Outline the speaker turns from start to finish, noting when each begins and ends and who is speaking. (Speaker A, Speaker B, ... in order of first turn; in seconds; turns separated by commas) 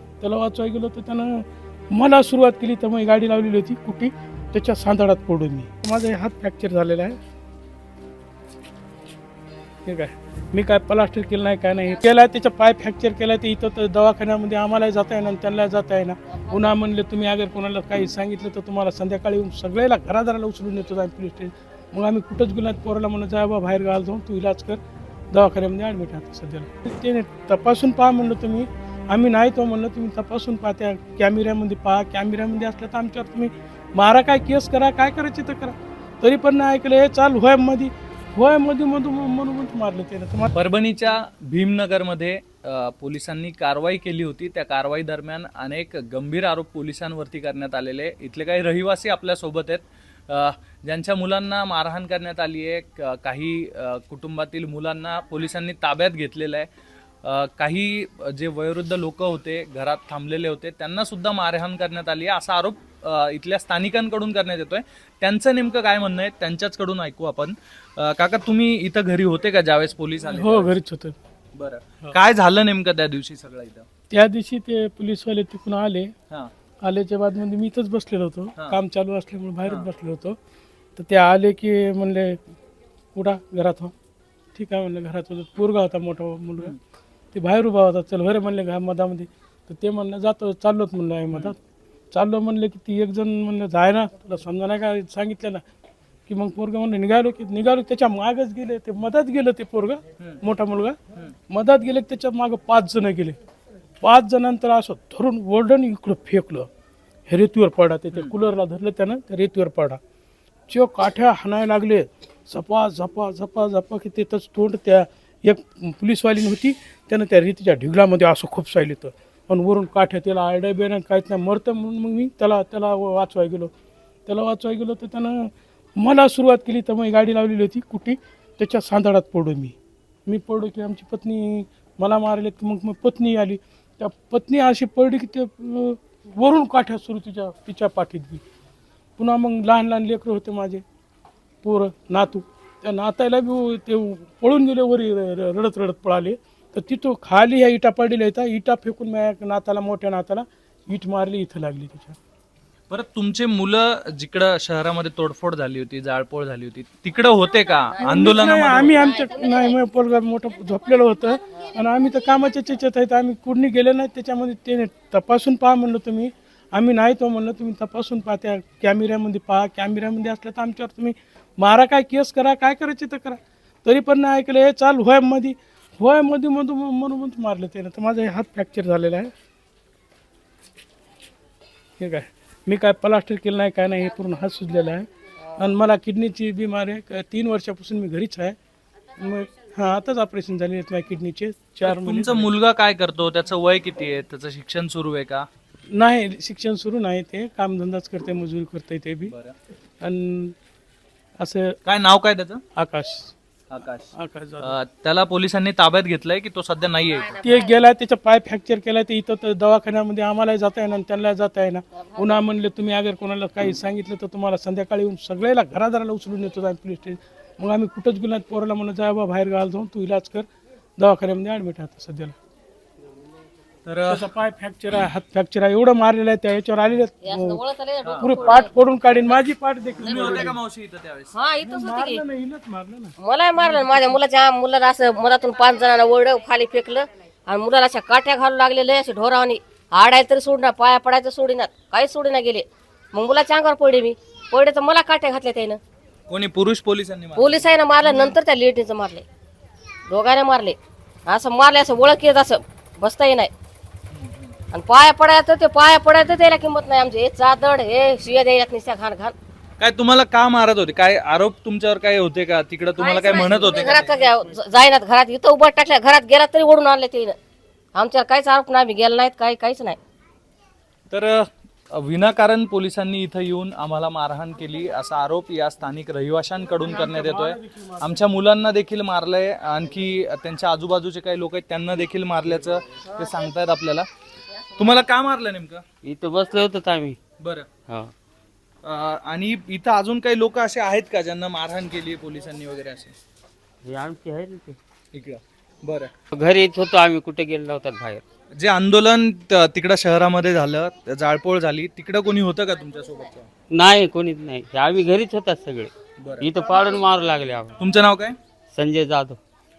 Speaker A: 0.2-7.2, Speaker A: 9.8-24.8, Speaker A: 25.3-40.5, Speaker B: 40.5-56.7, Speaker B: 57.2-70.7, Speaker A: 70.3-71.2, Speaker B: 71.5-73.9, Speaker A: 74.1-76.1, Speaker A: 76.8-80.4, Speaker A: 81.0-82.4, Speaker A: 83.1-83.9, Speaker A: 84.5-86.7, Speaker A: 87.3-91.6, Speaker A: 92.1-95.6, Speaker A: 96.2-101.0, Speaker A: 101.5-103.4, Speaker A: 104.0-106.7, Speaker A: 107.3-110.0, Speaker A: 110.7-123.7, Speaker A: 124.3-129.8, Speaker A: 130.3-138.4, Speaker A: 139.2-140.8, Speaker A: 141.6-152.2, Speaker B: 152.9-159.2, Speaker C: 157.9-158.3, Speaker A: 158.0-179.3, Speaker C: 158.9-159.7, Speaker A: 182.0-188.6, Speaker A: 189.2-192.5, Speaker B: 191.8-195.5, Speaker A: 195.9-199.3, Speaker B: 199.3-199.5, Speaker A: 200.0-200.5, Speaker A: 201.4-201.8, Speaker B: 201.8-202.6, Speaker A: 202.8-203.3, Speaker B: 203.7-207.4, Speaker A: 204.1-204.8, Speaker C: 207.2-207.7, Speaker A: 207.4-220.4, Speaker A: 221.0-222.3, Speaker B: 223.8-224.2, Speaker A: 224.1-227.6, Speaker C: 227.2-228.7, Speaker B: 228.0-228.3, Speaker A: 228.2-230.6, Speaker B: 230.0-231.3, Speaker C: 230.0-230.3, Speaker C: 231.3-232.2, Speaker A: 231.6-234.2, Speaker C: 233.2-245.8, Speaker B: 246.3-247.7, Speaker C: 247.3-249.2, Speaker C: 250.1-253.5, Speaker B: 254.1-254.5, Speaker C: 254.7-259.3, Speaker B: 259.8-264.2, Speaker C: 263.0-267.4, Speaker C: 267.9-270.0, Speaker B: 271.1-284.1, Speaker A: 276.8-278.3, Speaker B: 284.8-285.8, Speaker D: 286.0-287.2, Speaker B: 287.4-287.7, Speaker D: 287.9-288.1, Speaker B: 288.8-293.1, Speaker D: 293.8-294.8, Speaker B: 295.1-296.1, Speaker D: 296.3-298.2, Speaker B: 298.5-303.5, Speaker D: 303.7-307.8, Speaker B: 306.2-306.5, Speaker B: 307.8-308.4, Speaker D: 308.7-309.4